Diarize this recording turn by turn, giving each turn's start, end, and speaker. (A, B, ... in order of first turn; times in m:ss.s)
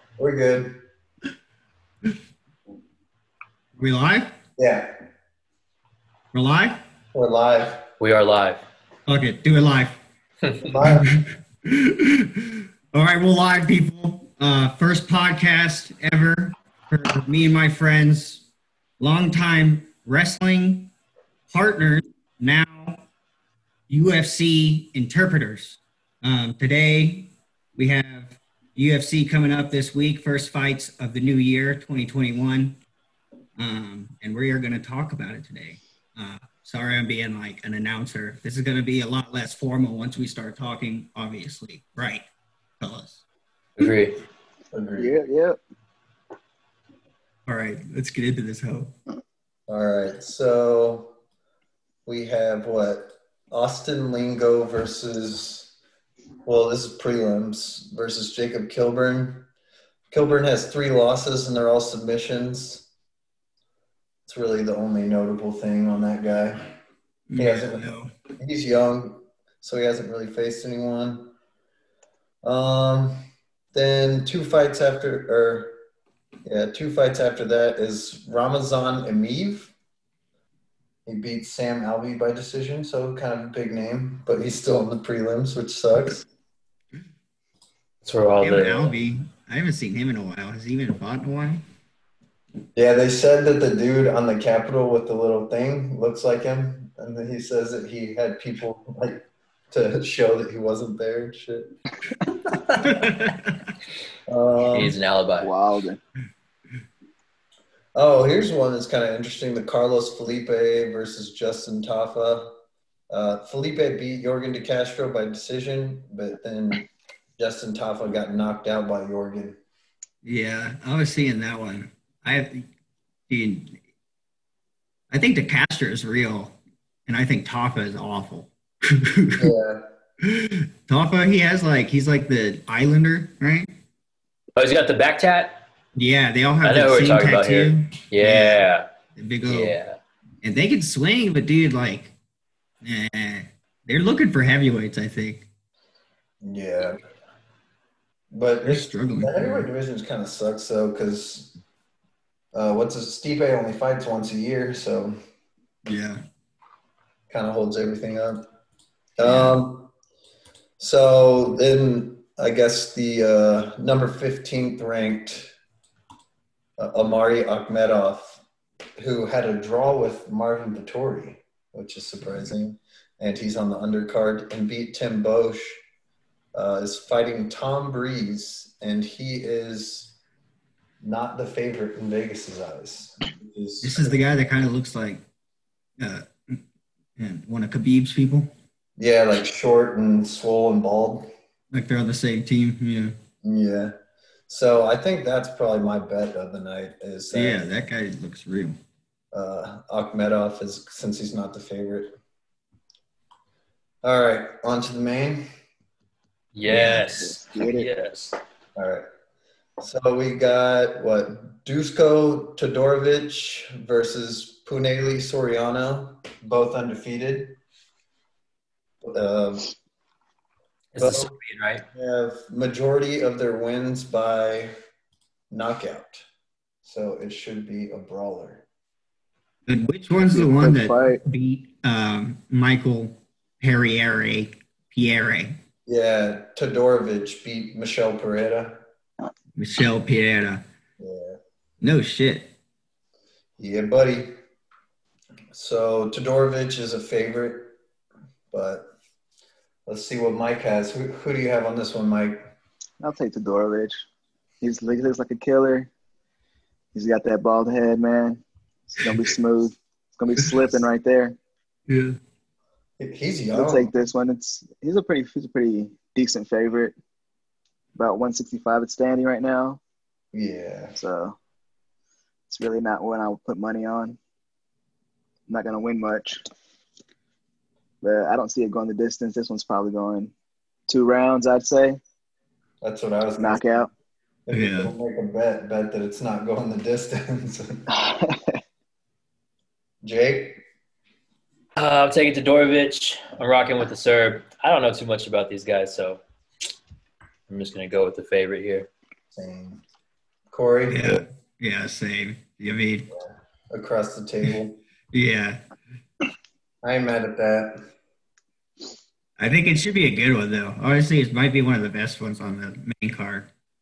0:00.2-0:00.7 A
0:03.8-0:04.3 B
0:04.6-0:04.9 A
0:06.3-0:06.8 B
0:07.1-0:07.8 A
0:08.0-0:08.6 C
0:09.1-0:10.0 B
0:10.6-0:11.1 A
0:10.8-0:18.5 B
0:19.0-0:20.9 B
0:21.5-0:23.0 B
0:23.9-0:32.8 B
0:33.6-0:42.2 B
0:42.8-0:43.2 B
0:43.8-0:44.2 C
0:44.7-0:45.1 A
0:45.0-0:45.6 D
0:47.4-0:48.9 B
0:49.7-0:51.1 A
0:52.0-0:55.7 A
0:56.4-0:59.5 A
1:00.1-1:02.9 A
1:04.3-1:06.7 A
1:07.3-1:08.1 B
1:07.4-1:11.3 A
1:12.4-1:13.2 A
1:13.7-1:15.7 A
1:16.4-1:19.7 A
1:21.0-1:26.2 A
1:28.0-1:28.9 C
1:28.4-1:31.6 B
1:32.8-1:41.7 A
1:42.8-1:43.6 B
1:44.3-1:45.0 A
1:44.7-1:45.5 C
1:45.4-1:46.0 D
1:47.9-1:52.5 A
1:53.1-1:56.9 A
1:57.4-1:59.6 A
2:00.2-2:02.6 B
2:03.3-2:03.8 B
2:05.1-2:09.5 B
2:09.4-2:09.8 A
2:10.2-2:13.7 B
2:14.6-2:15.6 C
2:16.0-2:19.8 B
2:16.6-2:18.9 C
2:19.4-2:20.0 C
2:20.4-2:22.1 B
2:22.8-2:25.5 B
2:26.4-2:27.0 A
2:28.3-2:31.6 A
2:28.6-2:29.7 B
2:32.5-2:35.1 A
2:35.8-2:36.2 B
2:37.3-2:38.4 A
2:39.2-2:39.9 A
2:39.2-2:39.6 B
2:40.8-2:45.5 A
2:46.8-2:48.4 A
2:49.0-2:55.8 A
2:56.5-3:00.1 A
3:01.0-3:04.2 A
3:03.8-3:05.2 B
3:06.0-3:06.6 B
3:07.2-3:08.5 B
3:09.0-3:11.3 A
3:11.7-3:13.1 B
3:13.4-3:13.9 A
3:14.5-3:17.7 A
3:17.3-3:18.8 B
3:19.3-3:22.1 A
3:24.0-3:25.4 A
3:26.5-3:28.4 C
3:26.7-3:27.1 B
3:27.1-3:27.9 D
3:28.8-3:29.0 A
3:29.8-3:37.6 A
3:39.0-3:39.7 A
3:40.9-3:41.8 C
3:41.0-3:41.3 A
3:41.9-3:44.7 A
3:45.5-3:46.2 A
3:46.8-3:48.6 A
3:49.7-3:55.6 B
3:50.2-3:51.2 D
3:55.9-3:58.8 A
3:59.6-4:00.6 B
4:01.0-4:01.4 A
4:01.8-4:02.5 B
4:03.6-4:04.3 A
4:05.5-4:07.8 A
4:08.5-4:08.9 A
4:09.8-4:12.4 A
4:13.0-4:14.0 D
4:14.6-4:15.9 D
4:16.9-4:21.4 D
4:21.9-4:22.2 B
4:23.0-4:23.9 A
4:23.5-4:26.9 D
4:28.0-4:29.8 D
4:30.3-4:30.9 A
4:31.0-4:31.4 D
4:32.5-4:34.2 D
4:35.5-4:36.4 D
4:38.0-4:40.3 D
4:40.9-4:42.0 D
4:42.8-4:43.8 A
4:43.4-4:43.9 D
4:44.5-4:47.8 A
4:44.5-4:44.9 B
4:47.9-4:48.6 D
4:50.0-4:50.6 A
4:51.8-4:56.2 C
4:57.5-4:58.9 C
4:59.3-4:59.8 A
5:00.5-5:01.2 A
5:00.9-5:03.1 B
5:03.1-5:04.8 A
5:05.1-5:05.6 B
5:06.8-5:07.7 A
5:09.4-5:13.5 B